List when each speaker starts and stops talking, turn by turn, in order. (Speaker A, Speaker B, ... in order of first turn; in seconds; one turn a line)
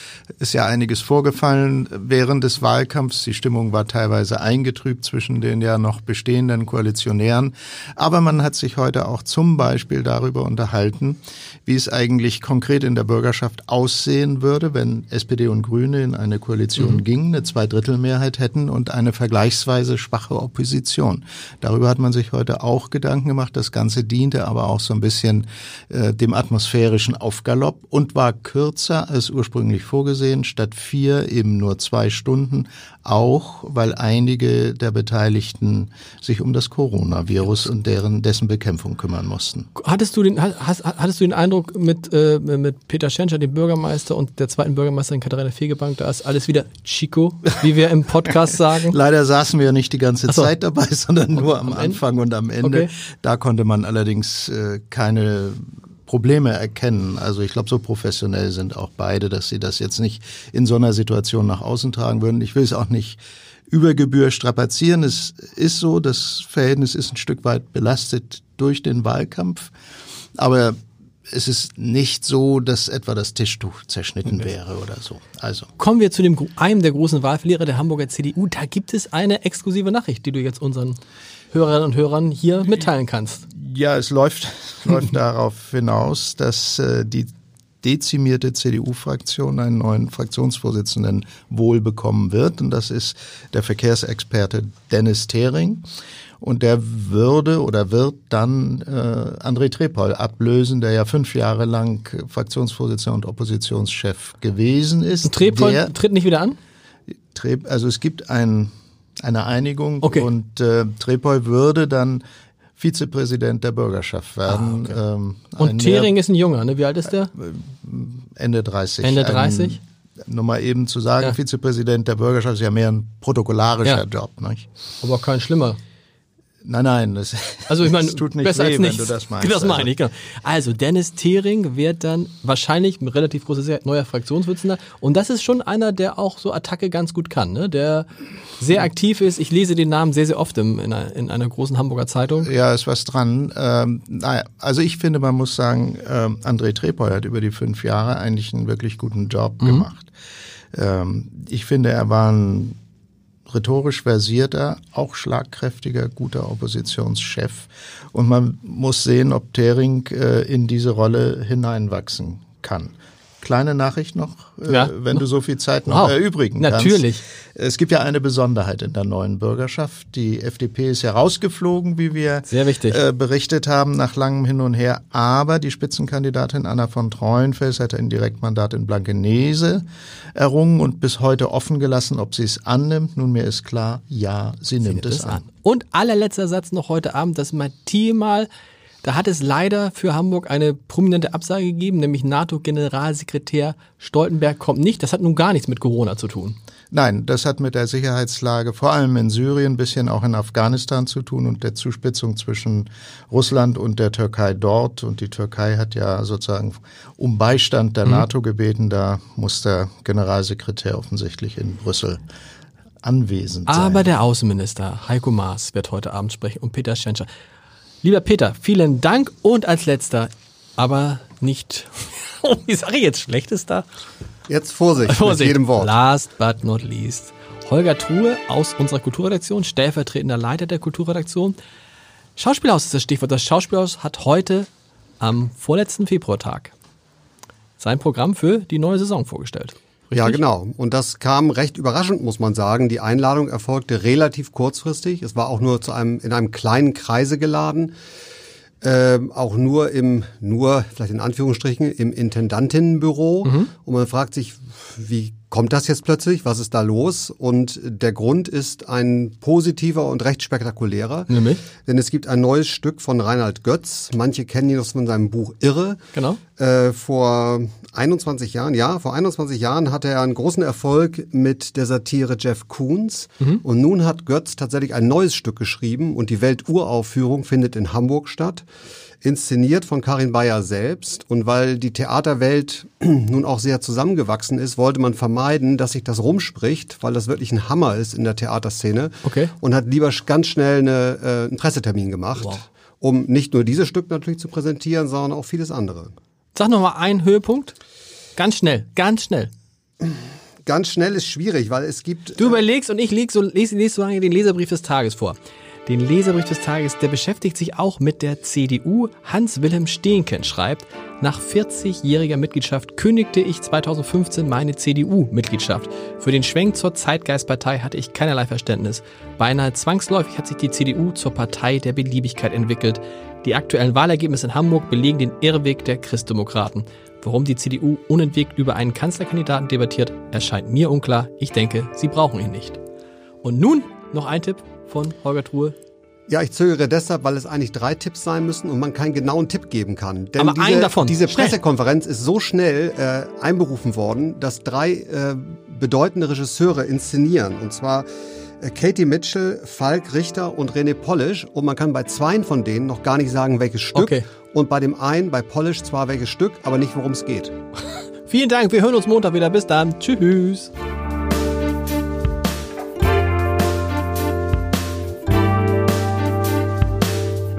Speaker A: 0.4-39.7
Speaker B: 39.8-49.0
Speaker A: 48.8-69.7
Speaker B: 51.4-52.0
Speaker B: 52.6-52.9
Speaker A: 70.4-70.8
Speaker A: 71.3-75.7
Speaker B: 75.8-81.0
Speaker B: 81.5-83.5
Speaker A: 83.5-87.3
Speaker A: 87.8-95.8
Speaker A: 96.4-105.9
Speaker B: 105.2-106.6
Speaker A: 107.3-112.2
Speaker B: 110.0-110.3
Speaker A: 112.8-116.1
Speaker B: 114.5-115.0
Speaker B: 115.6-117.3
Speaker A: 117.3-124.7
Speaker B: 119.0-119.8
Speaker B: 125.0-125.8
Speaker A: 126.6-129.9
Speaker B: 127.7-138.1
Speaker B: 138.6-142.5
Speaker A: 142.4-150.1
Speaker A: 150.7-152.8
Speaker A: 153.5-185.4
Speaker B: 164.7-165.2
Speaker B: 165.9-167.2
Speaker B: 172.5-173.0
Speaker B: 184.8-188.5
Speaker B: 189.0-196.6
Speaker A: 196.9-212.2
Speaker A: 213.0-214.1
Speaker B: 213.7-217.3
Speaker B: 218.0-223.9
Speaker C: 224.5-225.9
Speaker B: 225.1-231.5
Speaker B: 232.3-234.7
Speaker B: 235.2-236.7
Speaker B: 237.8-240.4
Speaker C: 240.1-247.9
Speaker C: 248.8-266.0
Speaker B: 261.3-261.6
Speaker B: 266.1-266.4
Speaker C: 266.6-278.6
Speaker C: 279.2-296.1
Speaker B: 289.2-289.5
Speaker B: 296.5-297.8
Speaker B: 298.4-299.5
Speaker C: 300.0-302.6
Speaker B: 302.4-332.8
Speaker B: 333.4-335.7
Speaker C: 336.3-348.1
Speaker B: 340.4-341.6
Speaker C: 348.6-357.5
Speaker B: 353.9-354.2
Speaker B: 358.2-360.7